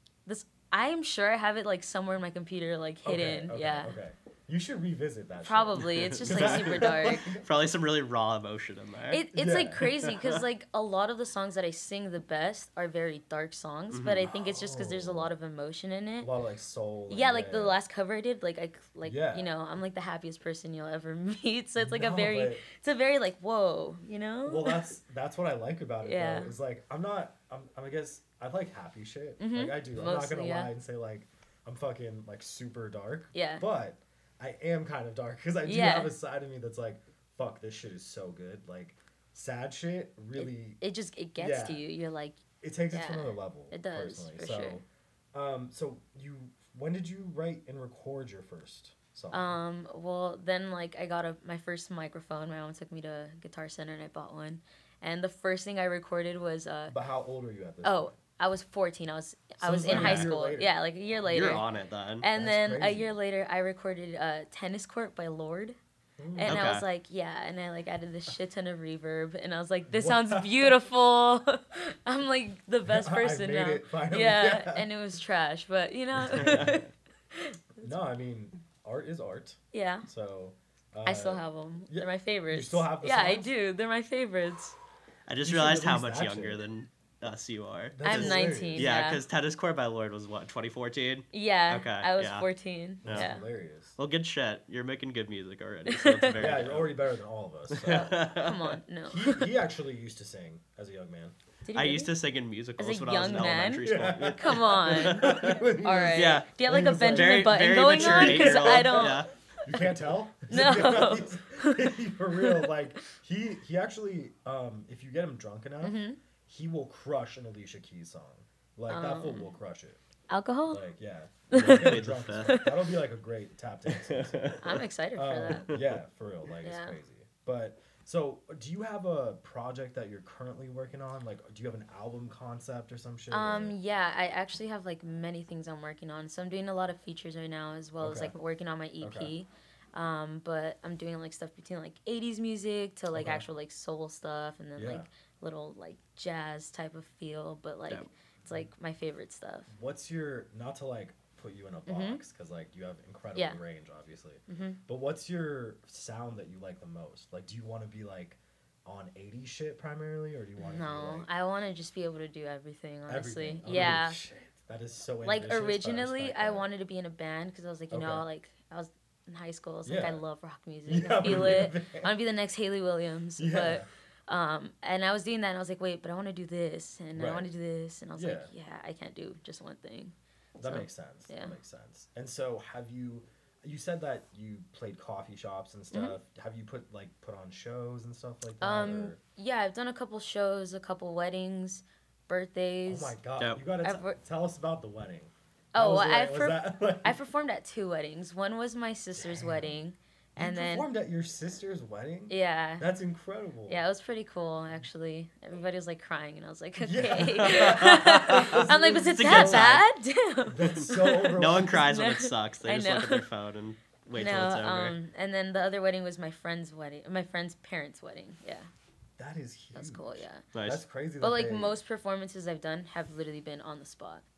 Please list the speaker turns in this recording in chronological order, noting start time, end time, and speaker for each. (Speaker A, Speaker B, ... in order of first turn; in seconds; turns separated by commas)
Speaker A: 0.2-4.0, Speaker B: 3.0-7.4, Speaker A: 5.4-7.2, Speaker C: 5.8-9.2, Speaker A: 9.1-16.3, Speaker B: 9.3-9.9, Speaker C: 9.8-10.2, Speaker C: 13.9-14.3, Speaker B: 14.2-15.3, Speaker B: 16.2-17.8, Speaker A: 17.1-24.8, Speaker B: 19.0-19.5, Speaker B: 21.8-22.6, Speaker B: 24.4-40.8, Speaker A: 26.0-26.5, Speaker A: 29.4-30.7, Speaker A: 33.3-33.6, Speaker A: 35.6-36.1, Speaker A: 40.4-44.8, Speaker B: 41.4-41.8, Speaker B: 42.6-49.6, Speaker A: 49.3-57.0, Speaker B: 56.9-58.1, Speaker A: 57.8-61.7, Speaker B: 59.6-61.5, Speaker C: 59.9-60.3, Speaker C: 61.3-62.3, Speaker A: 62.2-65.8, Speaker B: 62.3-63.1, Speaker B: 66.2-66.7, Speaker A: 66.3-77.9, Speaker C: 66.5-66.8, Speaker B: 69.9-70.8, Speaker B: 72.8-74.9, Speaker B: 76.2-76.8, Speaker C: 76.4-76.8, Speaker B: 77.8-83.5, Speaker A: 79.7-80.1, Speaker A: 81.0-84.8, Speaker C: 85.3-92.5, Speaker B: 85.4-86.6, Speaker B: 87.9-88.9, Speaker A: 88.0-89.2, Speaker A: 91.3-93.4, Speaker C: 93.0-93.3, Speaker B: 93.0-94.0, Speaker C: 94.0-97.0, Speaker A: 95.8-96.4, Speaker B: 96.3-98.2, Speaker C: 97.7-98.8, Speaker A: 97.8-99.5, Speaker B: 99.1-101.3, Speaker A: 101.6-102.1, Speaker C: 101.7-105.5, Speaker A: 102.8-109.3, Speaker B: 103.8-120.0, Speaker C: 106.1-110.0, Speaker A: 110.5-112.7, Speaker A: 115.8-116.2, Speaker A: 118.9-119.5, Speaker A: 120.3-120.9, Speaker B: 120.7-133.8, Speaker A: 121.5-122.7, Speaker C: 121.5-122.7, Speaker C: 123.9-124.7, Speaker A: 124.6-125.7, Speaker A: 126.6-127.0, Speaker A: 133.3-149.7, Speaker B: 138.0-138.3, Speaker B: 139.0-139.3, Speaker B: 143.1-143.5, Speaker B: 144.8-145.1, Speaker B: 149.7-161.3, Speaker A: 151.8-152.2, Speaker A: 153.3-153.6, Speaker A: 154.5-154.8, Speaker A: 160.6-164.2, Speaker B: 163.1-166.7, Speaker A: 165.2-181.6, Speaker B: 167.9-168.3, Speaker B: 169.8-170.2, Speaker B: 170.8-172.1, Speaker C: 171.2-171.5, Speaker B: 173.4-173.9, Speaker B: 177.1-177.5, Speaker B: 178.1-178.5, Speaker B: 180.6-189.2, Speaker A: 188.6-193.2, Speaker B: 192.8-197.2, Speaker C: 193.4-193.6, Speaker A: 193.8-194.2, Speaker A: 195.7-200.9, Speaker B: 199.1-199.8, Speaker B: 200.4-203.8, Speaker A: 202.3-202.9, Speaker A: 203.7-213.2, Speaker B: 206.8-209.8, Speaker C: 207.4-208.3, Speaker C: 209.1-209.8, Speaker B: 210.4-211.8, Speaker C: 211.4-215.0, Speaker A: 214.1-218.7, Speaker B: 219.2-221.8, Speaker A: 219.7-220.4, Speaker C: 220.5-220.8, Speaker A: 221.2-224.2